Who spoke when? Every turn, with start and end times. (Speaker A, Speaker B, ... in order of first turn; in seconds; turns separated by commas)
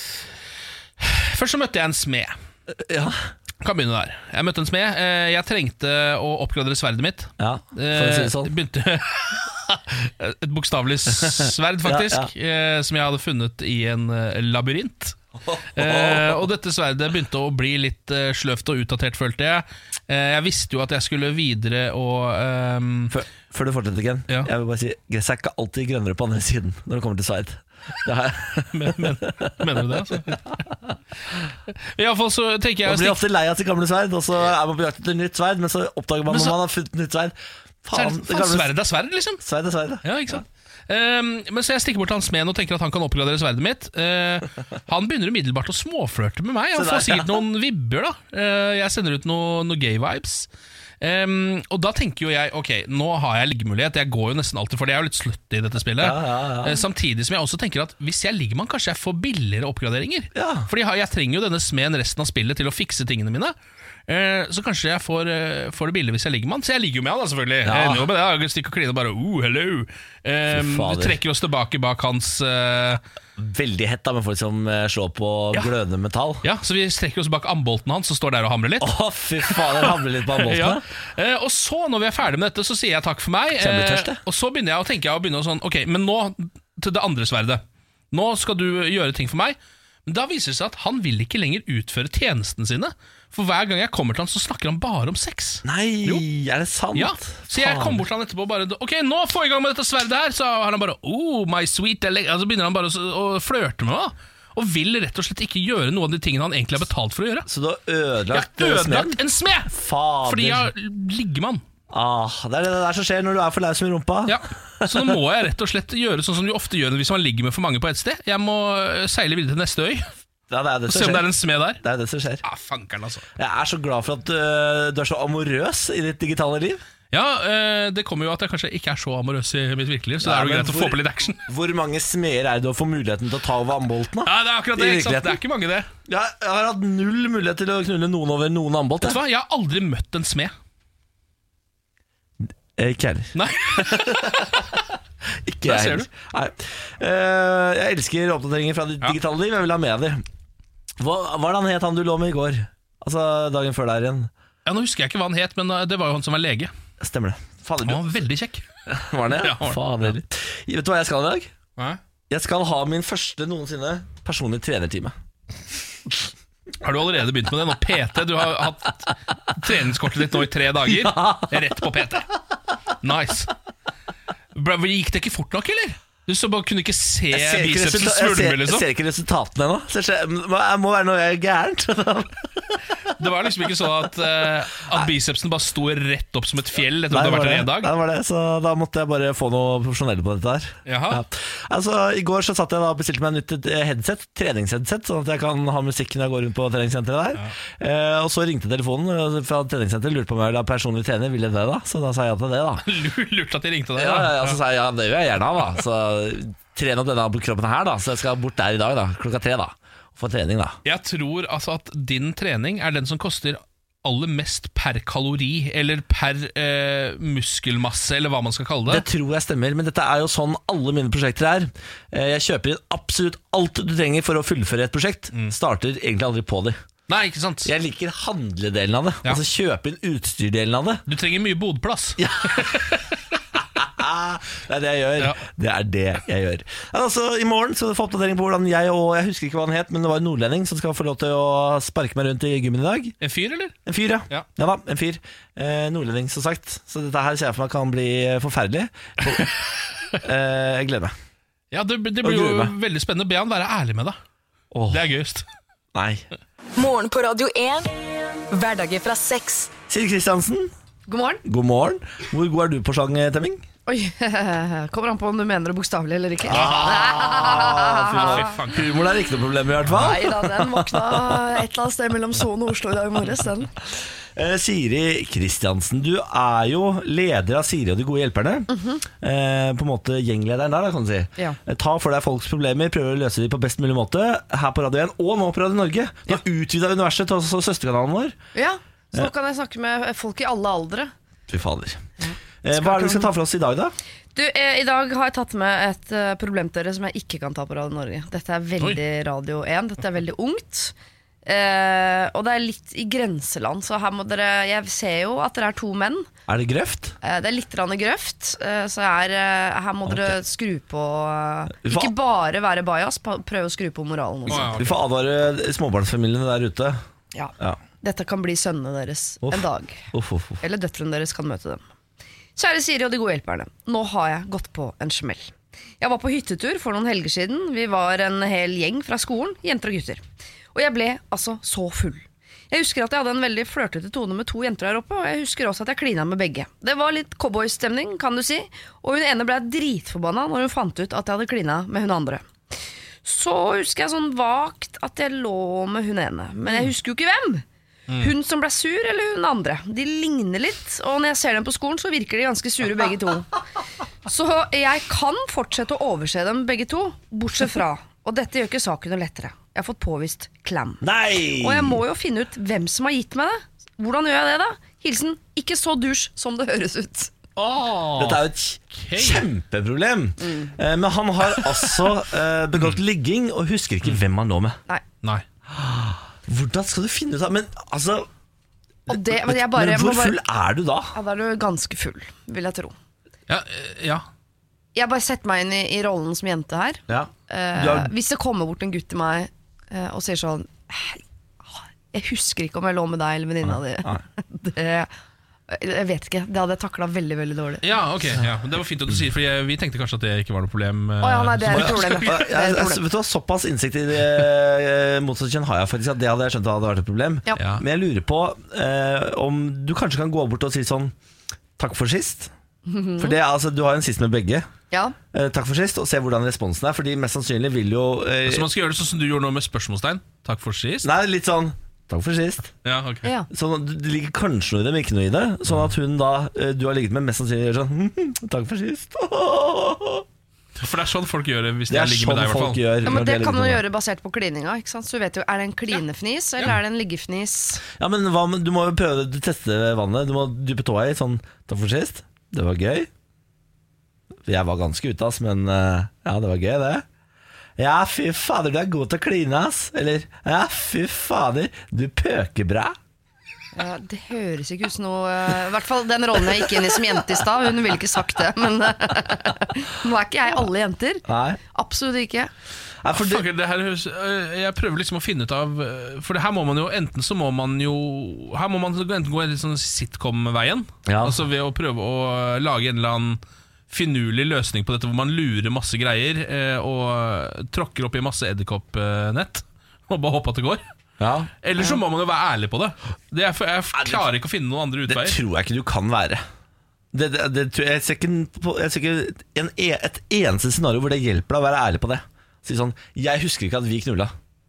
Speaker A: 1.0-2.3, Speaker B: 2.7-3.3, Speaker A: 3.6-15.2, Speaker B: 7.4-8.5, Speaker B: 11.2-12.3, Speaker B: 15.4-16.4, Speaker A: 15.7-23.2, Speaker B: 23.1-29.6, Speaker A: 28.7-30.6, Speaker A: 31.7-33.2, Speaker B: 32.8-38.7, Speaker A: 36.3-36.6, Speaker A: 37.9-39.4, Speaker B: 39.4-40.0, Speaker A: 40.0-50.5, Speaker B: 46.7-47.4, Speaker A: 51.0-63.5, Speaker B: 56.0-56.8, Speaker B: 60.3-60.7, Speaker A: 64.1-73.0, Speaker B: 67.6-68.0, Speaker B: 70.5-71.2, Speaker B: 73.4-76.4, Speaker A: 76.4-78.9, Speaker B: 78.8-80.8, Speaker A: 79.4-96.2, Speaker B: 83.6-84.2, Speaker B: 95.6-98.0, Speaker A: 96.9-107.5, Speaker B: 107.5-110.7, Speaker A: 108.3-109.7, Speaker A: 110.2-111.6, Speaker B: 111.9-115.2, Speaker A: 114.2-120.1, Speaker B: 120.5-122.4, Speaker A: 120.9-121.8, Speaker A: 122.4-123.2, Speaker B: 123.3-126.8, Speaker A: 127.1-131.5, Speaker B: 130.2-135.4, Speaker A: 134.2-135.9, Speaker B: 136.1-139.2, Speaker A: 139.0-140.5, Speaker B: 142.8-144.7, Speaker A: 143.3-144.8, Speaker B: 145.4-150.2, Speaker A: 145.6-146.1, Speaker B: 151.0-154.3, Speaker A: 154.6-156.7, Speaker B: 157.0-158.2, Speaker A: 157.8-158.7, Speaker B: 158.9-161.5, Speaker A: 159.2-160.1, Speaker B: 162.3-165.1, Speaker A: 166.8-172.3, Speaker B: 170.8-171.7, Speaker A: 173.0-173.5, Speaker A: 174.5-178.8, Speaker B: 177.3-182.8, Speaker A: 183.1-187.9, Speaker B: 187.1-202.9, Speaker A: 190.8-191.2, Speaker A: 202.8-204.6, Speaker B: 203.9-210.8, Speaker A: 210.8-219.0, Speaker B: 218.9-226.8, Speaker A: 227.1-227.7, Speaker B: 227.6-231.0, Speaker A: 231.1-233.1, Speaker B: 232.2-232.9, Speaker B: 233.7-243.2, Speaker A: 243.2-243.8, Speaker B: 243.8-249.6, Speaker B: 250.1-251.1, Speaker A: 251.7-254.2, Speaker B: 252.2-252.7, Speaker B: 254.7-255.0, Speaker A: 254.9-255.4, Speaker B: 255.9-256.2, Speaker C: 256.8-257.9, Speaker C: 258.5-259.7, Speaker B: 259.9-260.7, Speaker D: 261.1-261.4, Speaker B: 261.4-263.6, Speaker D: 263.9-268.4, Speaker B: 266.4-271.6, Speaker A: 266.5-267.1, Speaker A: 268.2-268.9, Speaker D: 269.9-273.7, Speaker B: 274.0-288.4, Speaker D: 278.7-279.0, Speaker D: 288.5-291.1, Speaker B: 291.5-292.0, Speaker D: 292.2-293.3, Speaker B: 292.6-293.9, Speaker D: 294.3-300.9, Speaker D: 301.4-306.3, Speaker B: 306.5-307.1, Speaker D: 307.2-314.8, Speaker B: 310.0-310.4, Speaker B: 311.8-312.1, Speaker A: 314.5-315.0, Speaker B: 314.5-317.0, Speaker D: 317.3-320.0, Speaker B: 319.4-320.6, Speaker D: 320.6-321.8, Speaker D: 322.6-330.2, Speaker D: 330.7-342.5, Speaker D: 343.2-347.6, Speaker D: 348.2-353.6, Speaker D: 354.2-361.0, Speaker B: 361.0-362.0, Speaker D: 361.5-367.3, Speaker A: 367.6-369.5, Speaker B: 368.2-374.8, Speaker D: 370.4-370.7, Speaker B: 375.7-378.3, Speaker B: 379.1-381.1, Speaker D: 379.1-380.4, Speaker D: 381.1-382.9, Speaker A: 383.5-384.2, Speaker D: 384.9-395.1, Speaker B: 387.1-388.1, Speaker D: 395.7-397.8, Speaker A: 397.8-402.3, Speaker D: 401.2-403.0, Speaker B: 401.7-411.1, Speaker A: 407.6-407.8, Speaker B: 411.8-412.5, Speaker D: 412.9-413.4, Speaker B: 413.2-414.7, Speaker D: 414.9-415.1, Speaker B: 415.3-418.7, Speaker A: 418.4-421.1, Speaker B: 421.0-422.7, Speaker A: 422.8-423.3, Speaker B: 423.5-430.2, Speaker A: 430.8-432.8, Speaker B: 431.9-433.8, Speaker D: 433.0-437.8, Speaker B: 437.9-443.1, Speaker B: 444.4-447.0, Speaker B: 447.8-452.9, Speaker D: 453.7-462.5, Speaker B: 461.3-461.6, Speaker B: 463.0-463.4, Speaker A: 463.1-480.8, Speaker B: 471.1-471.4, Speaker B: 481.2-481.9, Speaker A: 481.6-485.4, Speaker B: 483.9-484.3, Speaker B: 485.1-486.4, Speaker B: 487.1-494.3